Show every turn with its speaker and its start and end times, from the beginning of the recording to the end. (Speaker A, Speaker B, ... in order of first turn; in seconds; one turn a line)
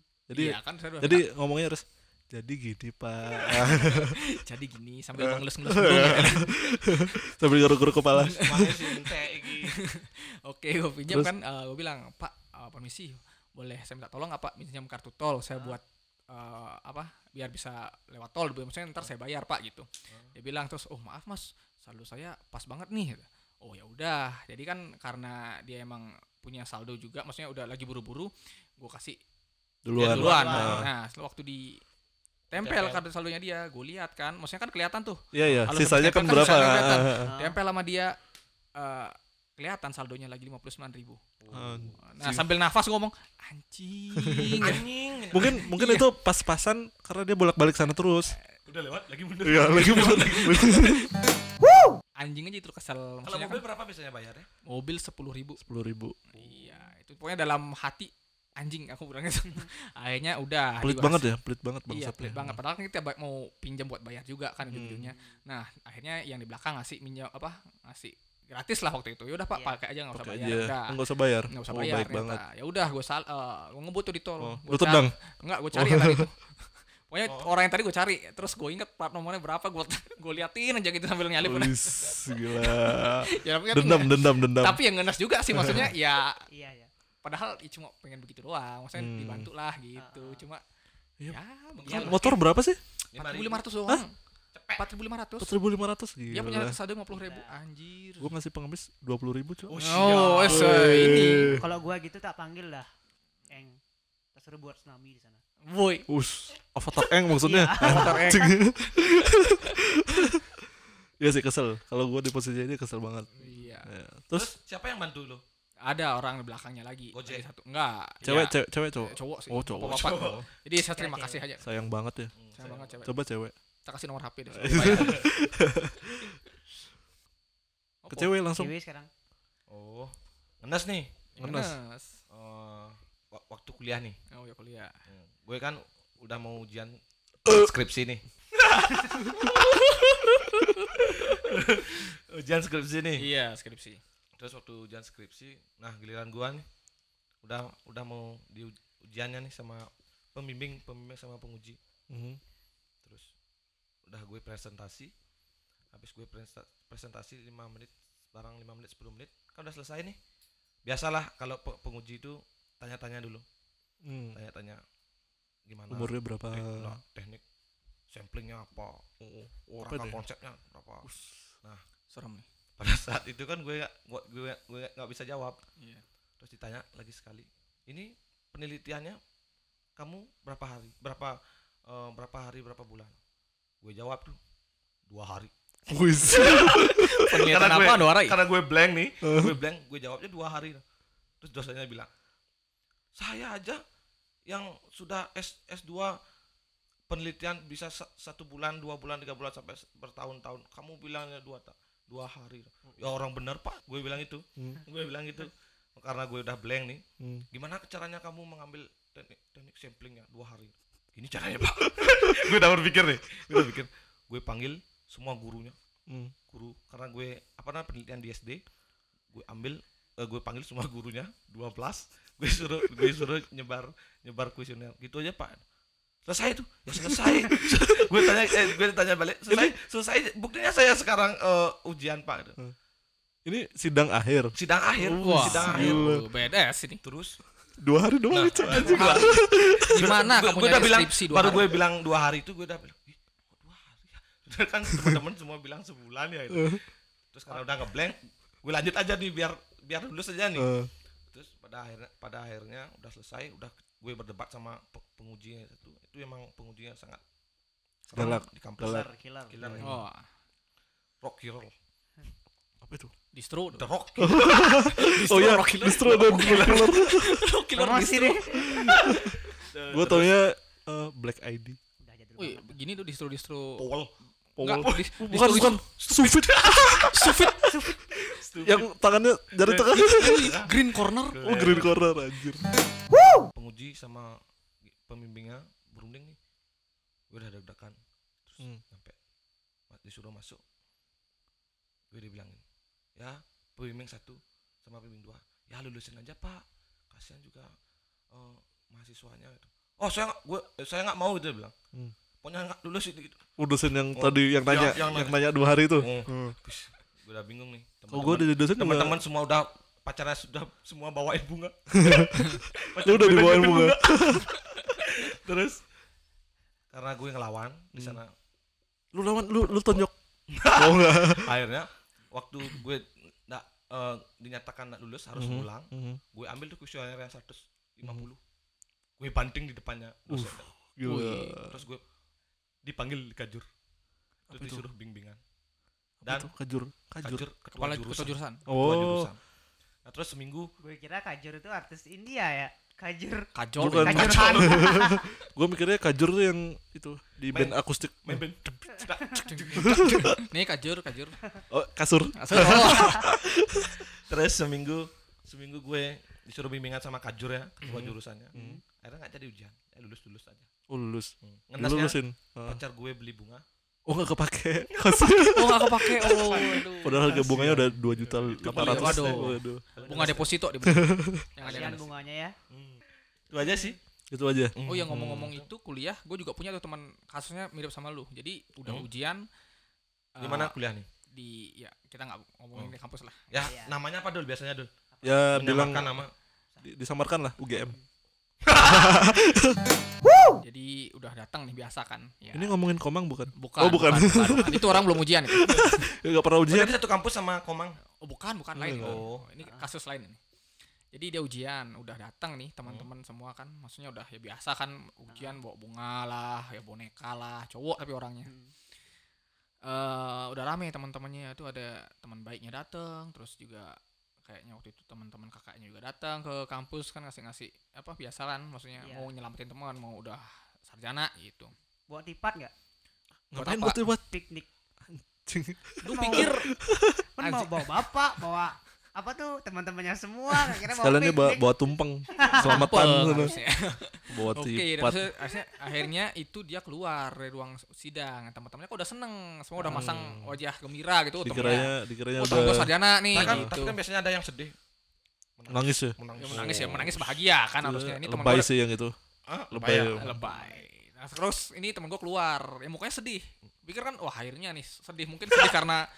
Speaker A: 0.3-4.2
Speaker B: 0.3-1.3
Speaker B: 3.3-7.0
Speaker A: 5.2-8.8
Speaker B: 8.1-29.2
Speaker C: 8.4-9.8
Speaker A: 29.8-30.9
Speaker B: 29.9-31.8
Speaker D: 30.1-30.9
Speaker B: 32.5-38.2
Speaker C: 32.5-33.0
Speaker A: 35.3-37.3
Speaker D: 37.2-37.6
Speaker B: 38.8-41.2
Speaker C: 41.4-42.0
Speaker A: 41.5-42.5
Speaker B: 42.0-44.8
Speaker A: 44.2-44.8
Speaker C: 44.6-45.6
Speaker A: 45.3-48.4
Speaker B: 45.5-46.1
Speaker C: 48.6-50.7
Speaker A: 49.4-51.0
Speaker B: 50.3-50.9
Speaker B: 52.2-53.6
Speaker C: 53.2-54.5
Speaker B: 54.6-55.6
Speaker A: 55.6-56.2
Speaker B: 56.3-61.4
Speaker A: 60.8-62.6
Speaker B: 61.9-86.4
Speaker A: 64.7-65.1
Speaker A: 70.1-72.4
Speaker A: 74.4-75.1
Speaker A: 75.7-76.3
Speaker C: 77.2-77.5
Speaker A: 81.4-84.8
Speaker A: 85.5-85.9
Speaker D: 86.5-86.9
Speaker B: 87.2-90.6
Speaker A: 88.9-89.5
Speaker D: 90.0-90.4
Speaker A: 91.2-92.8
Speaker B: 91.3-92.5
Speaker C: 91.8-92.3
Speaker C: 93.1-93.6
Speaker B: 93.1-94.2
Speaker C: 94.5-94.9
Speaker B: 94.8-95.5
Speaker A: 95.4-96.8
Speaker B: 96.3-98.3
Speaker D: 97.1-97.5
Speaker A: 98.2-101.6
Speaker C: 99.7-100.9
Speaker B: 99.8-101.5
Speaker D: 101.5-102.8
Speaker D: 103.5-103.8
Speaker D: 104.3-105.4
Speaker B: 105.6-106.1
Speaker A: 106.1-110.6
Speaker D: 107.4-108.4
Speaker B: 107.8-109.8
Speaker A: 111.2-114.5
Speaker B: 113.3-113.9
Speaker C: 114.3-115.4
Speaker B: 115.8-121.7
Speaker C: 117.1-117.5
Speaker A: 118.2-120.4
Speaker C: 119.8-120.4
Speaker D: 121.0-121.4
Speaker A: 121.6-122.3
Speaker C: 122.3-123.0
Speaker B: 122.5-123.1
Speaker A: 123.0-123.5
Speaker B: 123.8-125.2
Speaker A: 124.5-126.3
Speaker C: 124.7-125.2
Speaker B: 128.0-128.4
Speaker A: 128.1-128.7
Speaker D: 128.6-129.1
Speaker C: 129.7-131.5
Speaker B: 131.4-132.2
Speaker A: 131.4-131.8
Speaker C: 132.3-134.2
Speaker B: 134.3-134.9
Speaker C: 135.1-143.3
Speaker B: 143.2-144.0
Speaker C: 144.4-146.7
Speaker C: 147.4-151.8
Speaker A: 152.1-152.4
Speaker C: 153.0-153.3
Speaker C: 154.1-155.1
Speaker C: 155.9-160.2
Speaker C: 160.8-163.4
Speaker A: 164.0-164.4
Speaker C: 164.3-164.8
Speaker C: 165.7-167.4
Speaker A: 165.9-167.0
Speaker C: 168.1-169.0
Speaker A: 169.2-170.2
Speaker C: 169.8-171.1
Speaker A: 171.0-171.5
Speaker B: 172.1-172.4
Speaker C: 172.8-175.6
Speaker B: 175.8-176.0
Speaker C: 176.4-179.2
Speaker C: 180.0-183.2
Speaker C: 183.8-184.4
Speaker C: 185.1-185.5
Speaker A: 185.9-187.5
Speaker B: 186.3-188.4
Speaker C: 187.4-190.8
Speaker A: 189.2-189.6
Speaker C: 191.4-192.1
Speaker C: 193.2-193.8
Speaker C: 194.5-196.2
Speaker C: 197.1-215.8
Speaker A: 204.6-204.8
Speaker A: 216.1-216.3
Speaker C: 216.5-218.6
Speaker C: 219.3-225.6
Speaker C: 226.2-232.6
Speaker A: 227.2-227.5
Speaker A: 229.5-229.7
Speaker A: 233.4-236.2
Speaker C: 234.5-236.1
Speaker B: 235.1-237.0
Speaker C: 237.0-237.4
Speaker A: 237.8-240.2
Speaker C: 238.3-250.7
Speaker B: 238.7-241.8
Speaker A: 244.9-245.2
Speaker A: 246.5-246.8
Speaker A: 250.5-250.9
Speaker C: 251.3-257.2
Speaker C: 258.1-259.9
Speaker A: 258.1-259.1
Speaker D: 258.9-259.8
Speaker A: 259.6-260.0
Speaker B: 259.8-260.2
Speaker C: 261.2-261.7
Speaker A: 262.8-263.1
Speaker B: 263.3-263.9
Speaker C: 263.7-264.9
Speaker A: 264.2-267.4
Speaker B: 264.9-268.9
Speaker C: 266.1-267.0
Speaker D: 267.8-268.5
Speaker A: 268.6-271.8
Speaker C: 268.9-270.3
Speaker D: 272.0-272.8
Speaker B: 272.4-273.8
Speaker C: 273.8-274.1
Speaker B: 274.6-276.2
Speaker A: 274.6-277.1
Speaker C: 275.8-277.5
Speaker B: 277.0-277.9
Speaker C: 278.2-278.9
Speaker A: 278.3-280.5
Speaker C: 279.6-282.0
Speaker B: 279.9-281.5
Speaker A: 281.4-282.6
Speaker C: 283.5-284.4
Speaker C: 284.9-286.4
Speaker C: 287.3-289.1
Speaker C: 289.9-290.6
Speaker C: 292.1-292.6
Speaker C: 293.2-297.7
Speaker C: 298.3-301.7
Speaker C: 302.4-303.4
Speaker A: 303.6-306.6
Speaker C: 304.1-305.4
Speaker C: 305.9-315.8
Speaker A: 308.1-309.2
Speaker A: 311.9-314.6
Speaker C: 316.9-318.3
Speaker A: 319.1-320.1
Speaker C: 320.5-328.4
Speaker A: 320.6-321.6
Speaker A: 325.4-326.2
Speaker C: 329.2-330.8
Speaker A: 330.3-331.8
Speaker B: 331.0-331.6
Speaker C: 331.6-332.0
Speaker C: 332.8-333.6
Speaker C: 334.5-335.4
Speaker A: 334.5-334.8
Speaker A: 336.2-337.4
Speaker C: 336.2-336.5
Speaker C: 337.2-339.4
Speaker B: 337.7-338.6
Speaker A: 338.7-339.3
Speaker C: 340.1-340.7
Speaker D: 340.8-343.5
Speaker B: 343.5-344.6
Speaker A: 343.8-348.8
Speaker D: 344.0-345.3
Speaker C: 344.5-344.7
Speaker C: 347.5-349.8
Speaker B: 349.3-351.5
Speaker A: 349.8-350.4
Speaker A: 351.7-354.0
Speaker B: 352.3-353.3
Speaker C: 352.5-353.1
Speaker C: 354.0-360.7
Speaker A: 357.8-358.8
Speaker D: 358.5-358.8
Speaker A: 360.9-362.8
Speaker C: 361.4-363.6
Speaker A: 364.1-369.8
Speaker B: 365.5-367.8
Speaker C: 367.3-370.5
Speaker B: 368.6-372.1
Speaker A: 370.8-371.5
Speaker C: 371.5-372.1
Speaker D: 371.6-372.6
Speaker C: 372.7-374.0
Speaker A: 374.3-375.5
Speaker C: 374.8-375.7
Speaker B: 374.9-379.4
Speaker B: 380.4-380.8
Speaker C: 380.4-381.1
Speaker B: 381.3-383.6
Speaker C: 383.5-384.9
Speaker D: 383.6-384.0
Speaker D: 385.1-385.4
Speaker A: 385.2-386.2
Speaker C: 385.5-386.3
Speaker A: 386.8-387.9
Speaker C: 388.6-389.3
Speaker A: 388.8-389.8
Speaker B: 390.6-392.8
Speaker A: 392.5-397.0
Speaker B: 393.5-396.0
Speaker C: 396.7-398.0
Speaker B: 398.2-400.4
Speaker A: 398.7-399.2
Speaker C: 399.0-399.4
Speaker B: 401.1-408.5
Speaker D: 405.3-405.6
Speaker D: 408.4-408.7
Speaker B: 409.8-421.7
Speaker D: 419.0-419.3
Speaker D: 422.1-422.7
Speaker A: 423.5-424.3
Speaker B: 423.5-424.0
Speaker D: 424.1-424.6
Speaker A: 425.1-427.2
Speaker B: 426.0-426.7
Speaker D: 426.1-426.5
Speaker D: 427.4-431.7
Speaker B: 427.4-427.8
Speaker A: 430.9-433.6
Speaker D: 432.3-432.8
Speaker B: 432.4-444.0
Speaker A: 434.3-435.3
Speaker A: 439.8-440.6
Speaker A: 441.4-443.7
Speaker C: 442.5-442.8
Speaker C: 443.3-444.8
Speaker C: 445.6-447.1
Speaker A: 445.7-449.1
Speaker B: 446.4-448.7
Speaker C: 449.5-450.4
Speaker A: 449.7-450.4
Speaker B: 450.2-456.1
Speaker D: 450.5-450.8